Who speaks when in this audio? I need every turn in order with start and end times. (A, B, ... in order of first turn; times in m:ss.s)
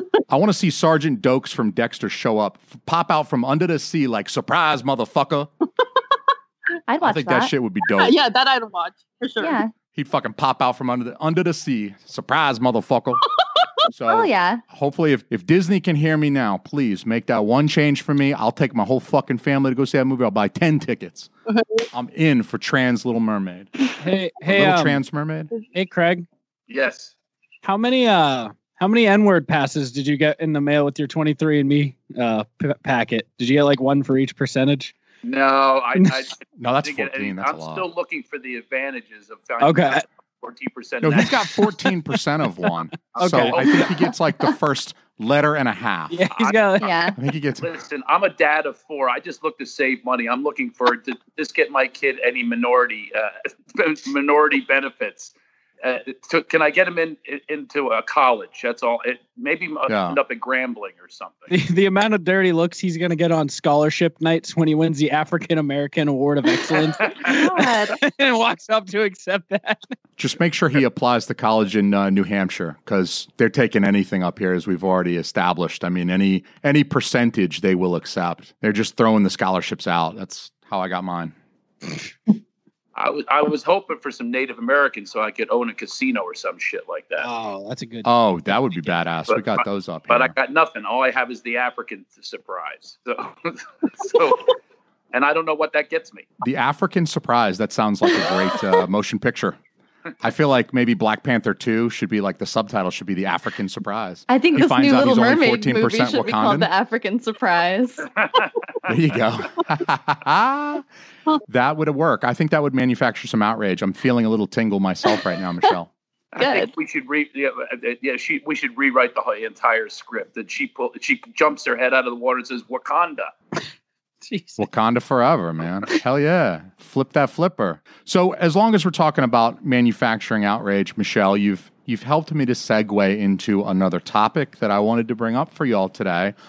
0:00.3-0:05.5 A
0:06.9-0:07.5 B
0:07.0-0:08.2 A
0:07.9-0:09.6 C
0:09.4-0:09.7 B
0:09.9-0:13.2 A
0:13.9-0:21.3 A
0:14.1-0:14.6 B
0:21.5-0:21.9 C
0:21.9-0:23.7 A
0:24.0-0:25.0 D
0:24.4-0:25.5 A
0:25.7-0:26.2 D
0:26.7-0:27.1 E
0:27.6-0:34.9 D
0:35.2-0:41.4 E
0:36.6-0:37.8 A
0:39.6-0:40.0 D
0:41.0-0:46.2 A
0:43.1-0:43.9 E
0:43.1-0:43.9 D
0:46.1-0:46.9 D
0:46.3-0:47.0 E
0:46.8-0:47.2 B
0:47.1-0:47.7 A
0:47.6-1:01.5 E
0:59.9-1:00.2 A
1:01.5-1:09.9 D
1:07.2-1:08.0 B
1:10.2-1:21.3 A
1:22.9-1:27.3 E
1:27.2-1:28.1 D
1:28.0-1:30.3 A
1:29.3-1:34.6 E
1:35.1-1:36.3 E
1:36.4-1:39.6 A
1:40.2-1:46.7 A
1:44.3-1:48.3 B
1:48.8-1:50.8 A
1:51.5-1:55.9 A
1:56.3-2:03.3 E
1:56.4-1:56.7 B
2:04.2-2:04.6 D
2:04.6-2:16.3 A